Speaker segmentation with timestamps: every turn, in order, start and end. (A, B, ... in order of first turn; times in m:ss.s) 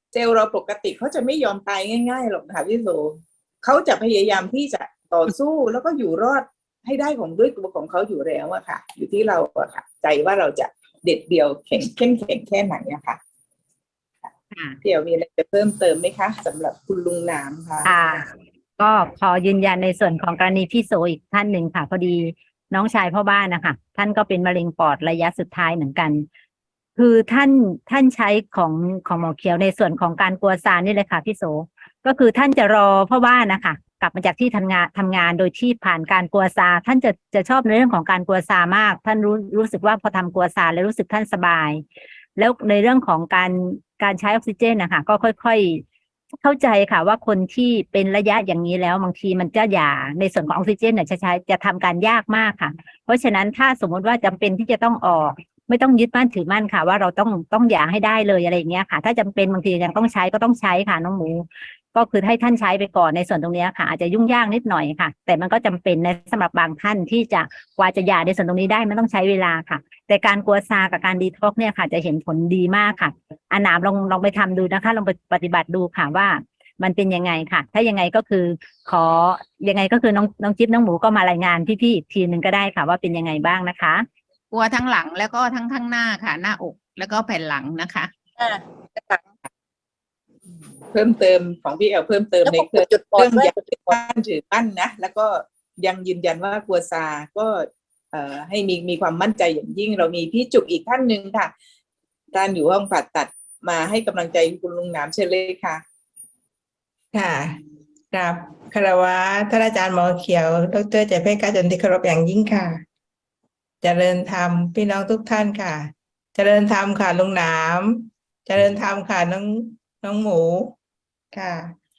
0:00.1-0:13.2 A
0:14.5-0:14.8 B
0:14.8-0:17.9 A
0:17.8-0:26.3 C
0:27.0-0:41.8 C
0:42.4-0:45.8 C
0:46.4-1:24.1 C
1:24.5-1:28.1 B
1:28.4-1:29.3 D
1:30.9-1:41.5 A
1:32.4-1:34.0 D
1:42.3-1:45.8 A
1:47.1-1:47.6 E
1:48.1-1:52.8 E
1:53.8-2:00.8 E
2:01.3-2:01.8 E